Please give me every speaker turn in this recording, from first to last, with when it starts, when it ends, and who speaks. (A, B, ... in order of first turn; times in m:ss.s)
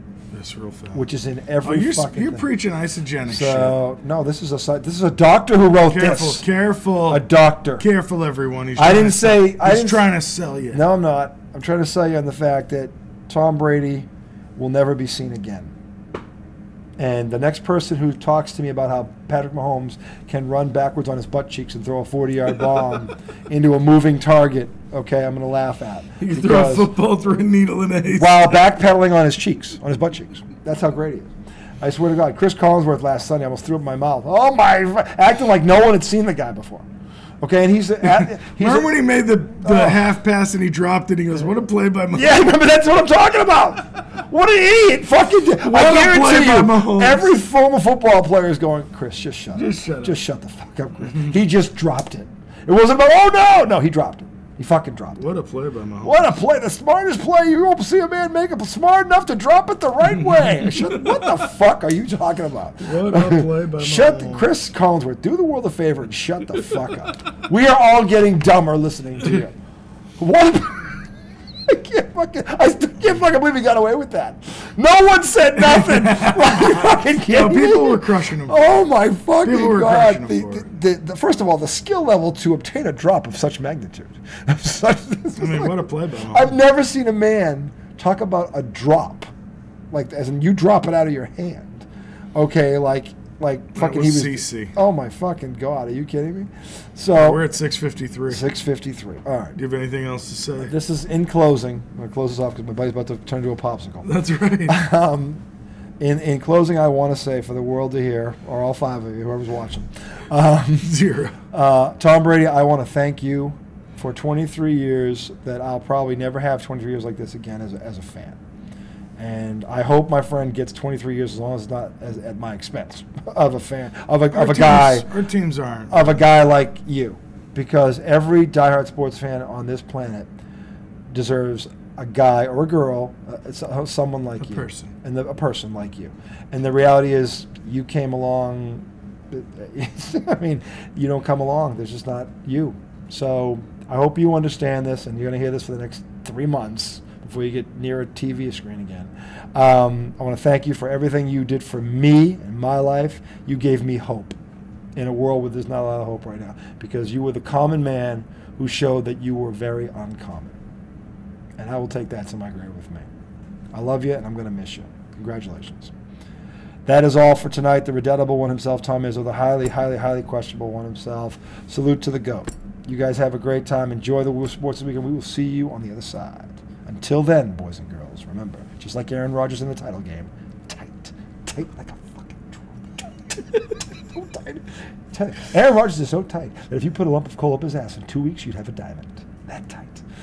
0:00.3-0:01.0 A
0:00.9-0:02.4 B
0:01.6-0:03.8 A
0:03.3-0:06.4 B
0:05.9-0:07.2 A
0:07.1-0:07.8 B
0:07.8-0:10.8 A
0:08.8-0:10.0 B
0:10.7-0:15.7 B
0:17.0-0:26.9 B
0:26.2-0:28.6 A
0:28.1-0:36.8 B
0:37.4-0:38.9 B
0:38.0-0:42.5 A
0:39.6-0:40.0 B
0:42.1-0:55.2 B
0:45.6-0:47.3 A
0:49.5-0:50.2 A
0:55.2-0:56.3 A
0:56.0-1:09.6 B
1:00.1-1:01.4 A
1:02.8-1:04.5 A
1:10.2-1:10.9 B
1:11.6-1:29.3 B
1:15.7-1:18.8 A
1:19.4-1:20.7 A
1:25.4-1:26.5 A
1:29.9-1:37.4 B
1:33.7-1:34.7 A
1:37.1-1:38.4 A
1:38.3-1:39.6 B
1:39.6-1:40.7 A
1:40.6-1:44.1 B
1:44.0-1:44.8 A
1:44.6-1:45.4 B
1:46.0-1:50.9 B
1:50.8-1:51.4 A
1:51.5-1:58.4 B
1:59.2-2:05.1 B
2:04.3-2:06.1 A
2:05.9-2:10.3 B
2:11.1-2:34.4 B
2:14.4-2:14.9 A
2:35.0-2:40.6 B
2:41.6-2:43.1 B
2:43.7-2:45.9 B
2:46.8-3:10.0 B